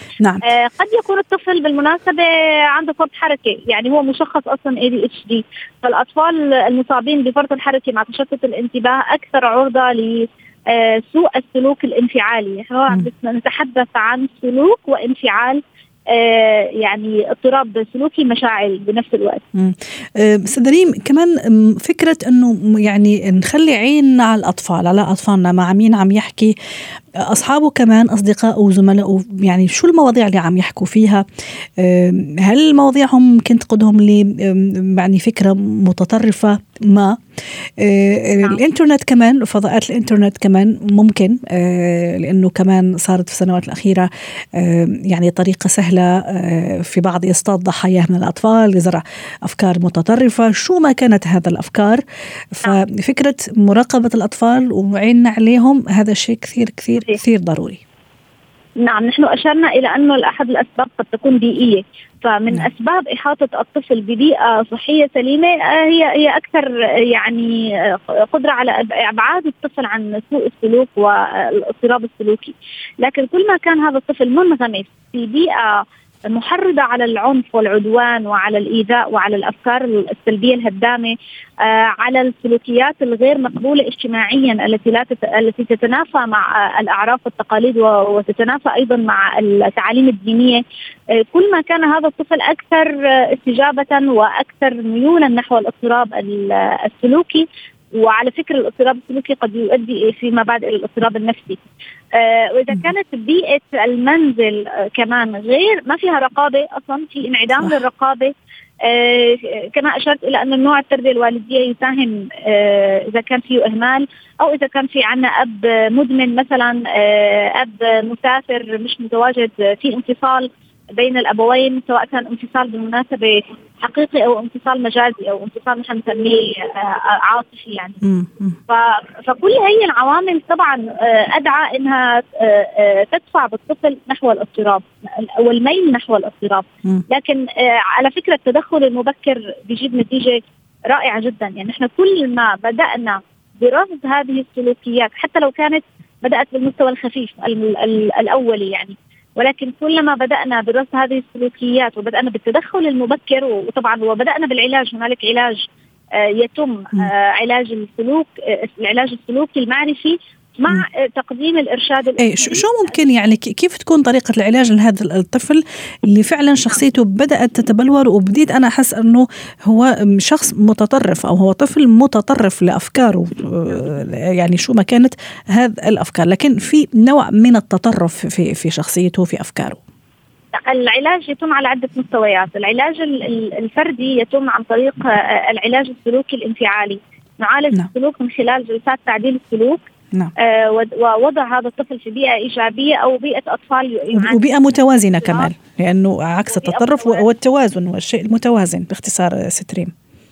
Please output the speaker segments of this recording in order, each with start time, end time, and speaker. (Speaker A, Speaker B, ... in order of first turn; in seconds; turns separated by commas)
Speaker A: 0.4-19.4, Speaker B: 19.5-26.5, Speaker B: 27.2-31.2, Speaker B: 31.8-37.2, Speaker B: 37.8-52.0, Speaker B: 52.5-57.8, Speaker A: 58.8-90.6, Speaker A: 91.2-101.6, Speaker A: 102.1-128.0, Speaker B: 128.0-128.6, Speaker A: 128.7-163.0, Speaker B: 162.2-179.8, Speaker A: 180.5-189.8, Speaker A: 190.4-194.4, Speaker B: 194.1-199.9, Speaker A: 195.2-195.5, Speaker A: 196.5-197.2